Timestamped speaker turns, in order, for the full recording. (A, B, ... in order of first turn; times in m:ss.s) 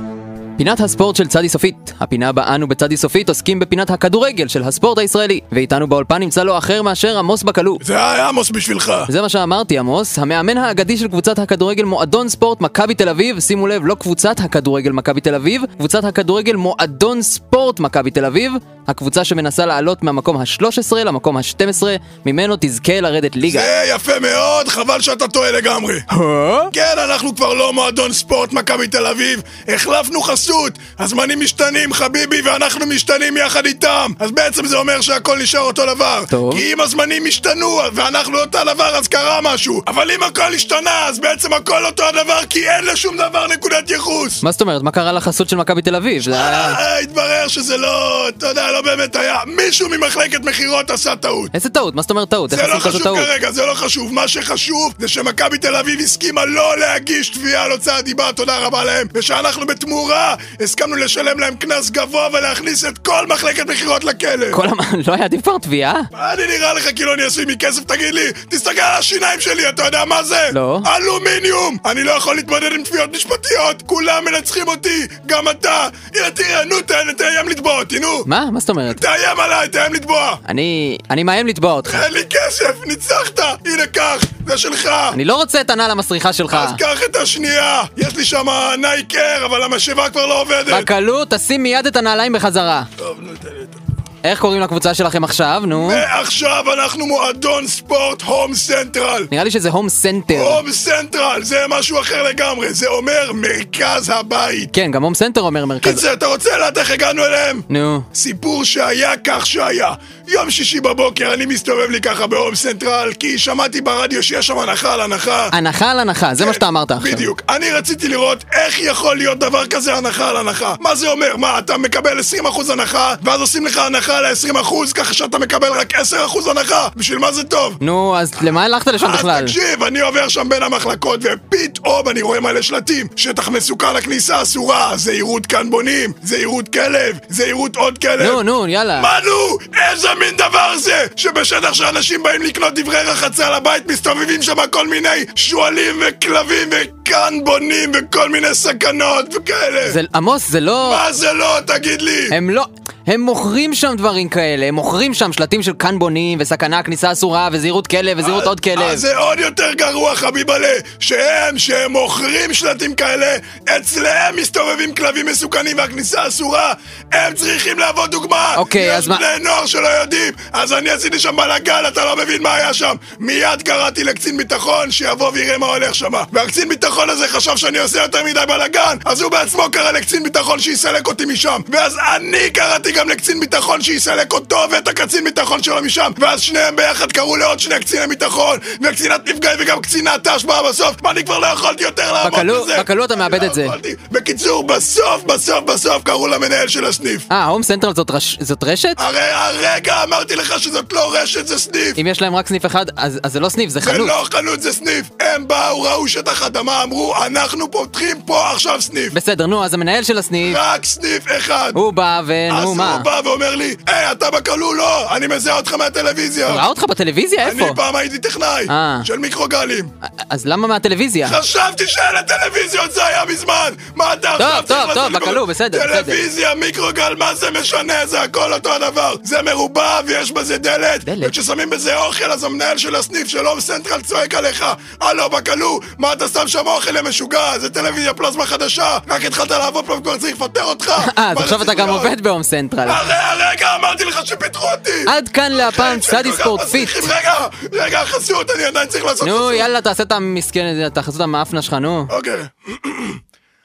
0:00.6-0:07.8 A
0:07.8-0:09.1 B
0:09.0-0:23.7 A
0:23.4-0:26.0 B
0:26.1-0:26.7 A
0:26.7-0:44.4 B
0:36.3-0:36.6 A
0:44.4-0:46.8 A
0:46.2-0:51.5 B
0:51.5-0:53.3 A
0:52.5-1:04.6 B
1:04.5-1:06.1 A
1:06.1-1:18.3 B
1:10.5-1:10.9 A
1:18.2-1:19.0 A
1:18.9-1:20.4 B
1:20.4-1:22.0 A
1:21.9-1:25.2 B
1:25.1-1:26.8 A
1:26.5-1:30.9 B
1:30.7-1:32.9 A
1:33.0-1:33.8 B
1:34.2-1:36.0 A
1:35.7-1:39.3 B
1:39.3-1:40.6 A
1:40.3-1:44.7 B
1:44.7-1:46.0 A
1:45.8-1:55.5 B
1:47.7-1:48.1 A
1:55.5-1:57.3 A
1:56.4-2:07.8 B
2:07.8-2:09.6 A
2:09.0-2:18.4 B
2:18.2-2:19.1 A
2:19.0-2:30.0 B
2:29.8-2:31.0 A
2:30.8-2:32.4 B
2:32.3-2:39.0 A
2:38.2-3:17.3 B
2:48.5-2:49.2 A
3:12.2-3:13.8 A
3:17.3-3:19.0 A
3:19.0-3:22.0 B
3:22.0-3:24.2 A
3:23.8-3:29.2 B
3:29.1-3:30.6 A
3:30.4-3:31.8 B
3:31.7-3:33.1 A
3:32.5-3:36.7 B
3:36.4-3:37.8 A
3:37.4-3:39.9 B
3:38.7-3:39.1 A
3:40.0-3:41.4 A
3:41.2-4:02.1 B
3:44.4-3:46.2 A
3:51.0-3:51.3 A
4:01.0-4:03.0 A
4:02.8-4:09.7 B
4:05.0-4:07.1 A
4:09.2-4:12.1 A
4:12.1-4:13.2 B